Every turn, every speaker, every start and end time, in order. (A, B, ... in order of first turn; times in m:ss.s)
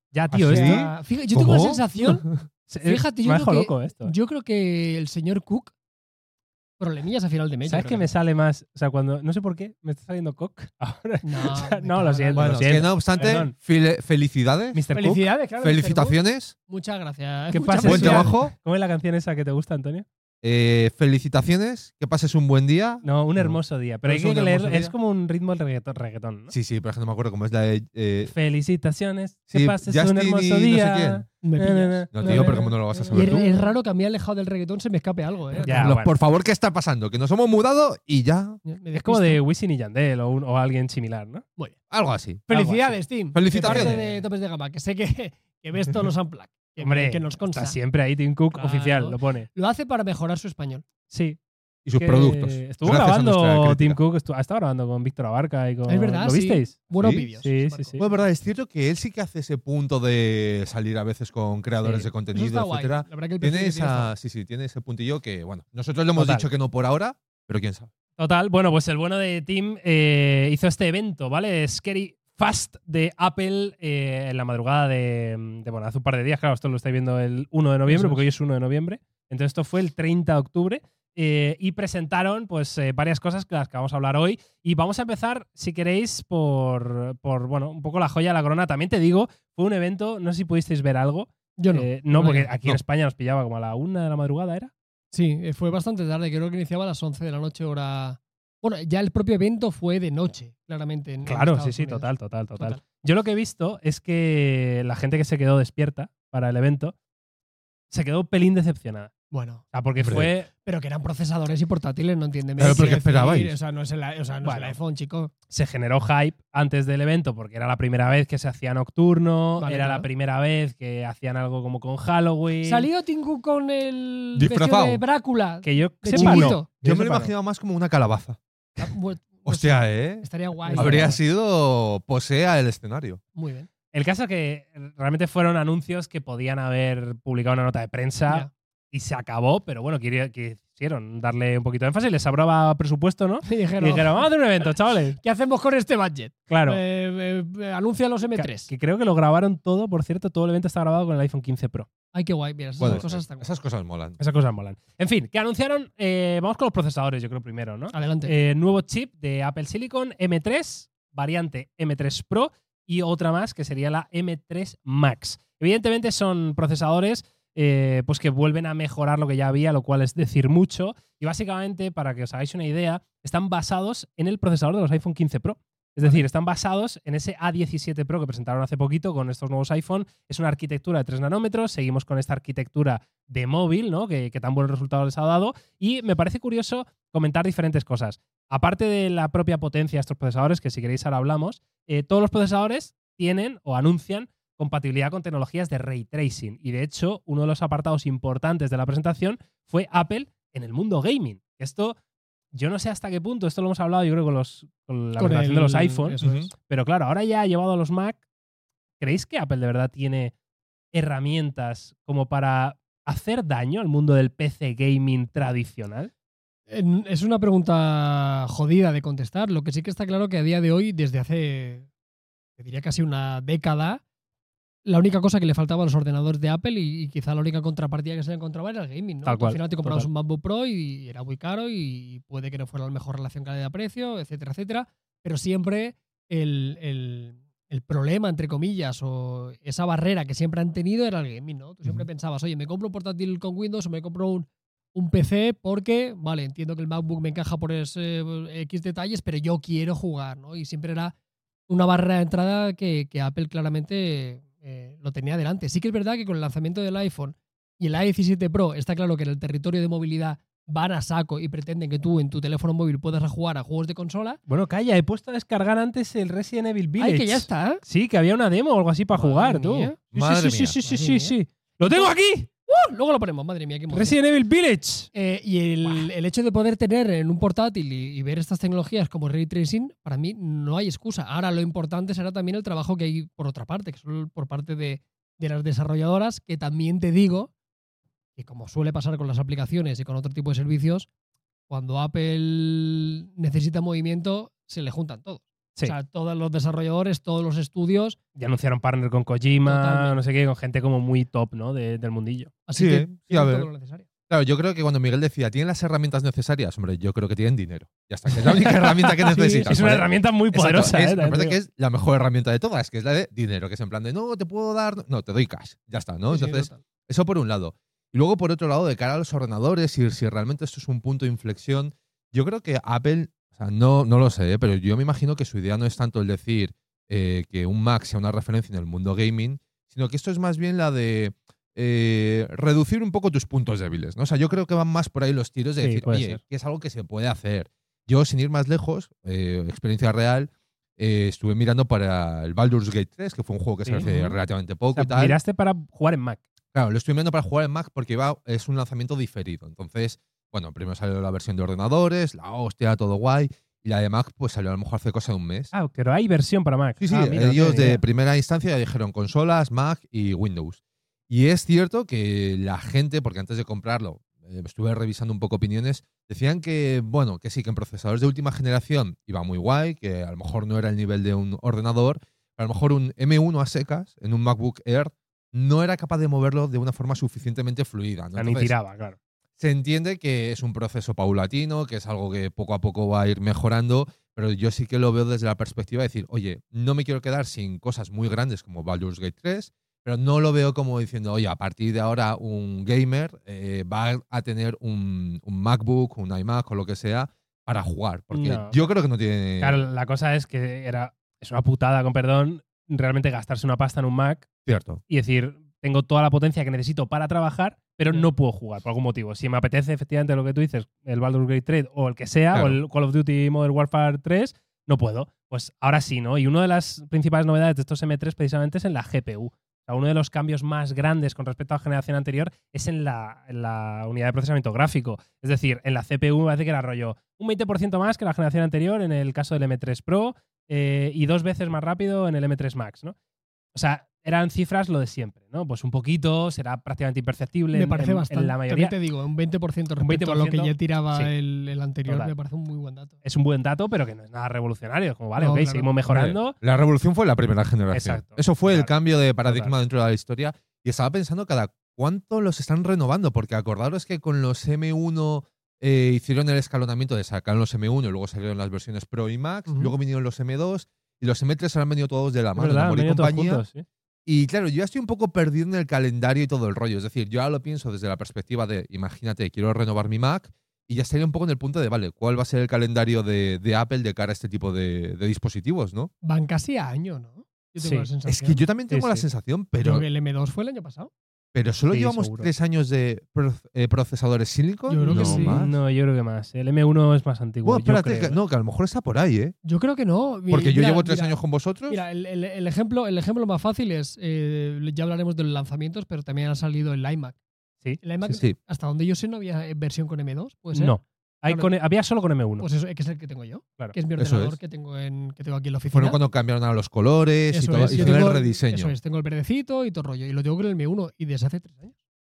0:00.1-0:00.8 A
0:00.3-0:02.4 B
0:00.5-0:02.3 C
0:02.7-0:04.1 A
0:02.8-0:05.7 C
0:06.8-0:08.0 C
0:07.7-0:13.6 A
0:11.2-0:12.5 C
0:12.3-0:16.5 B
0:13.2-0:13.4 C
0:14.7-0:15.2 A
0:14.9-0:18.4 C
0:17.5-0:20.1 A
0:17.8-0:18.5 B
0:20.4-0:24.9 B
0:23.0-0:26.5 A
0:26.5-0:28.3 B
0:28.2-0:33.7 A
0:29.5-0:31.2 B
0:31.4-0:35.9 C
0:32.1-0:33.5 B
0:35.6-0:38.6 B
0:35.6-0:36.1 A
0:38.6-0:39.4 C
0:38.9-0:41.4 A
0:41.9-0:42.5 B
0:42.5-0:47.8 C
0:42.5-0:42.9 A
0:43.3-0:44.0 B
0:43.6-0:44.2 A
0:46.8-0:49.5 A
0:48.5-0:50.8 C
0:51.1-0:51.4 A
0:51.8-0:54.0 B
0:52.0-0:56.8 A
0:55.9-0:58.0 C
0:56.9-0:57.3 B
0:57.4-0:58.1 A
0:58.0-1:07.9 B
1:01.8-1:02.1 A
1:02.3-1:04.1 C
1:06.2-1:06.5 A
1:08.2-1:34.7 A
1:17.9-1:18.2 C
1:31.6-1:32.5 C
1:35.1-1:42.8 C
1:41.2-1:47.0 A
1:47.9-1:49.1 A
1:49.3-1:49.7 C
1:49.7-1:50.5 A
1:50.0-1:50.3 B
1:50.5-1:55.3 C
1:52.6-1:53.6 B
1:52.6-1:53.0 A
1:54.4-1:54.8 A
1:55.5-2:02.9 A
1:59.6-2:00.1 C
2:02.6-2:06.7 C
2:04.4-2:05.0 B
2:05.6-2:07.3 A
2:06.2-2:08.4 B
2:08.8-2:11.2 C
2:09.5-2:13.2 B
2:10.7-2:11.2 A
2:13.4-2:13.7 C
2:13.9-2:25.2 A
2:23.4-2:24.3 C
2:25.2-2:28.7 C
2:26.5-2:26.8 A
2:28.4-2:31.9 A
2:32.1-2:33.5 C
2:32.8-2:34.2 B
2:34.2-3:22.0 A
2:37.9-2:38.3 C
3:22.5-3:28.2 A
3:25.2-3:26.5 C
3:26.2-3:26.5 B
3:29.0-3:30.3 A
3:30.9-3:36.1 A
3:36.7-3:41.9 C
3:42.6-3:44.0 C
3:44.8-4:11.1 C
3:49.2-3:50.1 A
4:11.7-4:24.4 C
4:24.5-4:32.5 A
4:27.0-4:27.8 C
4:29.1-4:30.0 C
4:30.1-4:30.8 B
4:30.8-4:31.4 C
4:32.7-4:34.2 C
4:33.9-4:35.1 A
4:35.1-4:47.5 C
4:48.4-4:51.1 C
4:51.7-4:58.2 C
4:58.4-5:02.5 A
4:59.6-5:00.2 C
5:02.7-5:04.1 C
5:02.8-5:03.7 B
5:04.3-5:45.4 B
5:08.3-5:11.6 A
5:09.3-5:09.7 C
5:16.3-5:16.8 C
5:35.8-5:36.4 A
5:43.8-5:44.4 A
5:44.9-5:46.4 A
5:46.7-5:55.7 B
5:55.7-5:58.0 A
5:57.0-6:18.8 B
6:18.4-6:19.2 A
6:19.6-6:39.8 B
6:38.3-6:38.9 A
6:39.6-6:44.5 A
6:44.7-6:45.0 B
6:45.1-7:13.2 A
6:52.5-6:52.8 B
7:13.7-7:19.0 A
7:17.7-7:23.2 C
7:20.0-7:21.3 A
7:22.1-7:22.3 A
7:23.2-7:26.6 A
7:25.4-7:26.0 C
7:26.1-7:43.6 B
7:27.9-7:29.8 A
7:39.7-7:39.9 C
7:42.6-7:43.8 A
7:44.3-7:56.1 B
7:56.2-7:58.6 C
7:57.8-7:58.1 A
7:58.3-8:00.1 B
7:58.9-7:59.2 A
7:59.8-8:01.1 C
8:01.5-8:05.8 B
8:01.9-8:02.5 A
8:04.9-8:05.6 C
8:05.0-8:08.4 A
8:07.6-8:09.5 B
8:09.6-8:17.4 C
8:10.5-8:12.0 B
8:17.8-8:18.4 A
8:18.0-8:21.7 C
8:20.7-8:22.7 A
8:22.6-8:26.2 C
8:24.2-8:24.6 B
8:25.9-8:28.9 B
8:27.5-8:32.0 C
8:27.9-8:28.4 A